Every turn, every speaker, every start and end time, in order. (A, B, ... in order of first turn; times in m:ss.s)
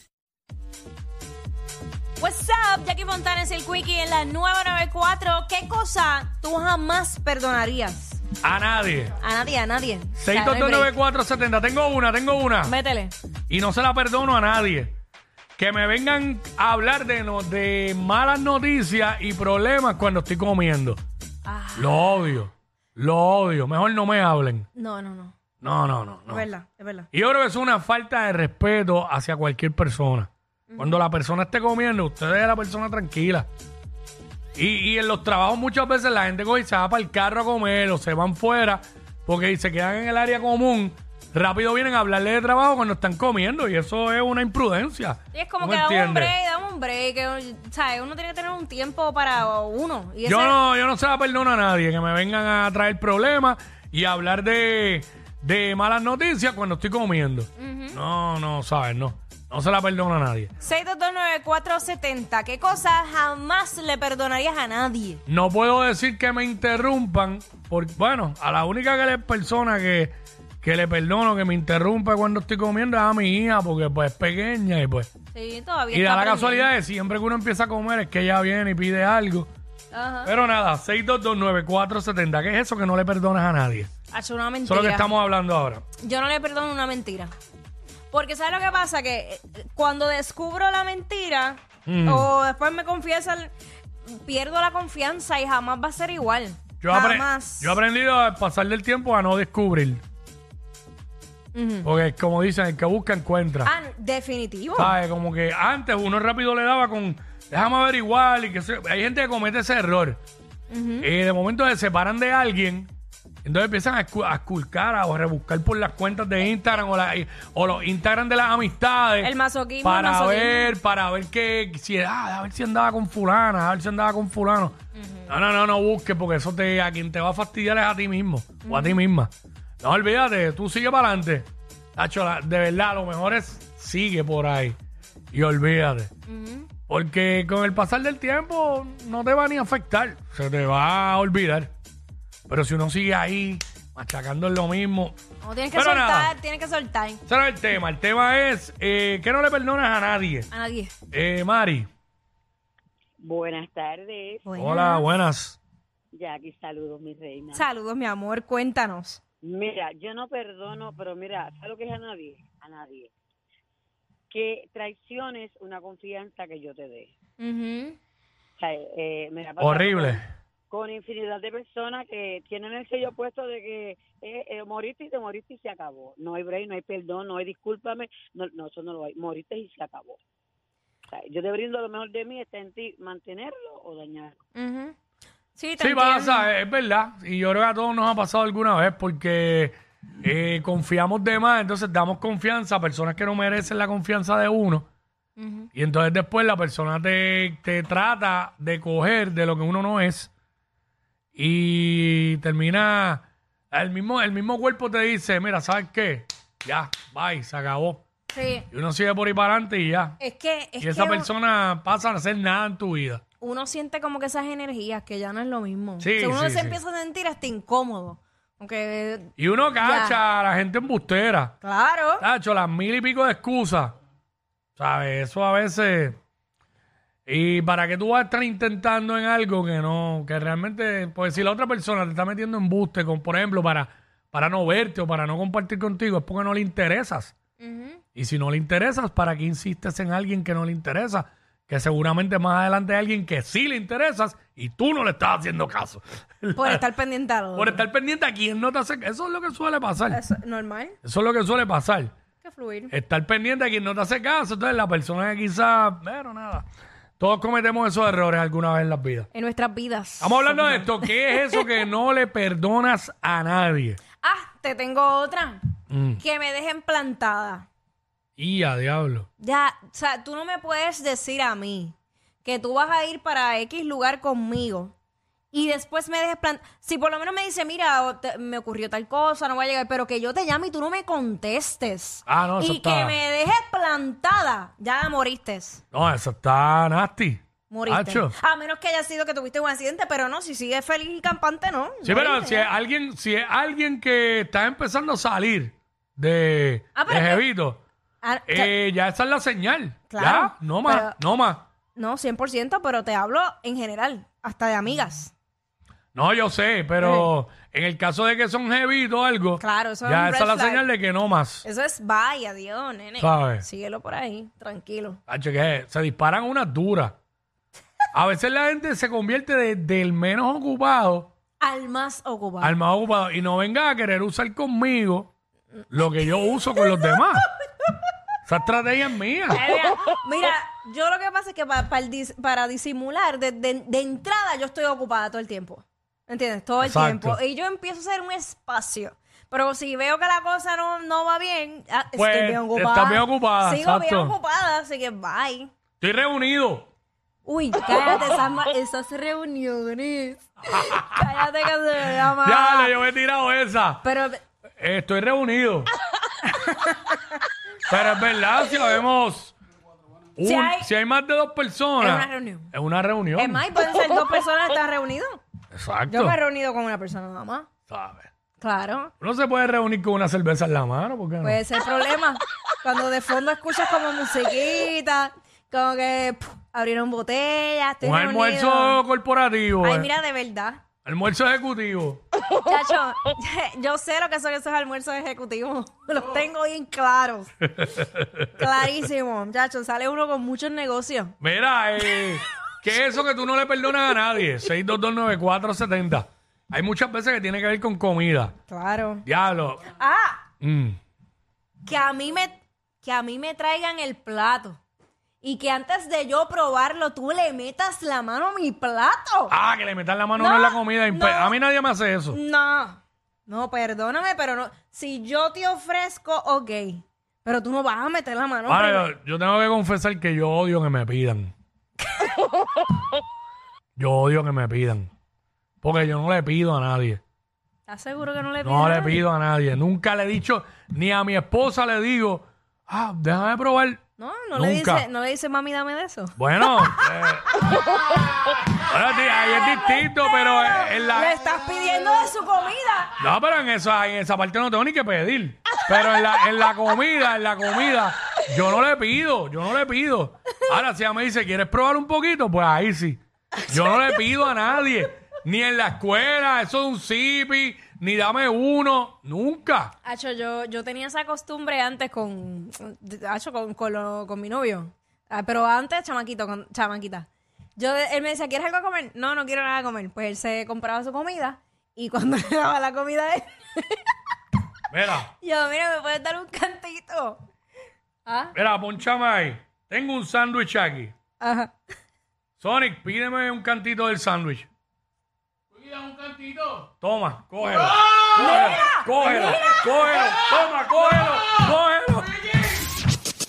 0:02.2-0:08.2 A
0:08.4-0:09.2 B
0:09.2-0:10.9 A
0:10.2-0:12.7 B
0:12.6-0:13.1 A
0:13.5-0:14.9 B
0:15.6-0:21.0 B
0:21.4-0:22.2 A
0:21.8-0:24.7 B
0:24.8-0:25.4 A
0:25.6-0:26.5 B
0:26.3-0:27.1 A
0:27.1-0:33.5 B
0:30.7-0:31.0 A
0:34.6-0:46.3 B
0:45.3-0:50.6 A
0:50.2-1:00.5 B
0:57.6-0:58.0 A
1:00.6-1:05.2 A
1:05.3-1:15.1 B
1:15.3-1:16.7 A
1:15.9-1:19.5 B
1:19.9-1:20.3 A
1:20.2-1:23.9 B
1:24.1-1:25.2 A
1:24.6-1:25.8 B
1:26.0-1:27.3 A
1:28.1-1:33.5 A
1:31.9-1:32.3 B
1:34.1-1:37.8 A
1:36.8-1:40.0 B
1:41.6-1:41.9 A
1:41.8-1:43.7 B
1:43.6-1:45.0 A
1:44.8-1:50.2 B
1:50.7-1:51.1 A
1:51.0-1:52.9 B
1:53.4-1:59.3 B
1:59.2-2:00.7 A
1:59.8-2:04.8 B
2:05.0-2:05.3 A
2:05.3-2:09.3 B
2:08.6-2:09.0 A
2:09.8-2:14.8 B
2:15.3-2:16.1 B
2:16.3-2:16.7 A
2:16.9-2:21.7 B
2:22.5-2:25.2 B
2:25.4-2:27.2 A
2:25.7-2:26.3 B
2:27.3-2:30.5 B
2:30.5-2:30.9 A
2:31.1-2:31.9 B
2:33.2-2:34.5 C
2:34.5-2:35.1 A
2:34.6-2:35.6 B
2:36.1-2:37.6 C
2:37.5-2:39.2 A
2:39.4-2:43.1 C
2:44.3-2:47.1 C
2:47.4-2:48.0 A
2:48.6-3:00.2 C
2:49.6-2:50.3 B
3:01.1-3:04.4 C
3:04.6-3:05.0 A
3:05.6-3:06.5 A
3:05.8-3:14.9 B
3:15.4-3:15.7 A
3:15.8-3:20.3 B
3:21.4-3:28.0 B
3:28.3-3:28.7 A
3:28.7-3:30.2 B
3:30.2-3:31.3 A
3:30.8-3:33.2 B
3:33.4-3:40.2 A
3:36.0-3:36.8 B
3:39.4-3:41.6 B
3:41.6-3:42.2 A
3:42.2-3:43.9 B
3:44.8-3:46.2 B
3:47.3-3:57.3 B
3:57.6-3:58.0 A
3:58.2-4:06.8 B
4:06.6-4:07.8 A
4:07.6-4:10.2 B
4:10.1-4:11.0 A
4:11.0-4:12.1 B
4:12.4-4:12.9 A
4:12.9-4:16.6 B
4:17.2-4:19.3 B
4:19.3-4:21.6 A
4:20.2-4:24.0 B
4:24.2-4:25.6 A
4:25.9-4:26.2 B
4:26.2-4:27.7 A
4:28.4-4:29.3 B
4:29.4-4:34.9 A
4:35.5-4:45.8 A
4:42.3-4:43.2 B
4:45.9-4:48.3 B
4:47.7-4:52.7 A
4:52.0-4:57.8 B
4:57.0-4:57.4 A
4:58.2-4:58.7 A
4:58.5-5:01.6 B
5:00.1-5:01.1 A
5:02.0-5:05.3 A
5:06.2-5:11.6 B
5:07.0-5:07.3 A
5:09.6-5:10.8 A
5:11.6-5:15.2 A
5:13.2-5:13.6 B
5:15.3-5:17.2 B
5:18.1-5:21.3 B
5:21.6-5:22.8 A
5:22.6-5:25.3 B
5:25.9-5:27.5 B
5:28.5-5:29.6 B
5:29.5-5:45.7 A
5:36.8-5:37.4 B
5:42.2-5:44.4 B
5:46.0-5:46.9 B
5:47.4-5:52.9 A
5:51.0-5:51.2 B
5:52.4-5:54.1 B
5:54.0-5:54.4 A
5:54.8-5:55.9 B
5:56.4-5:57.1 A
5:57.9-5:59.5 B
6:00.4-6:03.6 B
6:00.4-6:00.9 A
6:02.0-6:02.7 A
6:03.4-6:05.4 A
6:05.7-6:06.4 B
6:06.1-6:07.7 A
6:07.9-6:08.3 B
6:08.6-6:09.1 A
6:09.2-6:11.6 B
6:11.4-6:19.0 A
6:18.0-6:20.1 B
6:19.8-6:20.8 A
6:21.0-6:22.2 B
6:22.6-6:27.5 A
6:27.6-6:28.6 B
6:28.6-6:31.3 A
6:31.4-6:38.5 B
6:38.7-6:39.2 A
6:39.3-6:39.9 B
6:40.0-6:40.4 A
6:40.6-6:41.0 B
6:41.9-6:44.8 A
6:45.4-6:49.5 A
6:49.5-6:52.4 B
6:50.4-6:51.6 A
6:52.3-6:59.1 A
6:58.7-7:01.5 B
7:04.0-7:05.1 B
7:05.8-7:07.2 B
7:07.9-7:09.2 A
7:08.6-7:14.0 B
7:14.2-7:17.0 A
7:14.6-7:15.0 B
7:16.4-7:17.5 B
7:18.8-7:21.4 B
7:19.2-7:23.1 A
7:23.2-7:39.9 B
7:33.7-7:34.2 A
7:40.0-7:54.1 A
7:54.9-7:55.3 B
7:55.3-7:57.4 A
7:58.3-7:58.6 A
7:58.5-8:01.1 B
8:01.4-8:01.7 A
8:02.6-8:04.7 B
8:06.8-8:12.4 B
8:08.4-8:09.8 A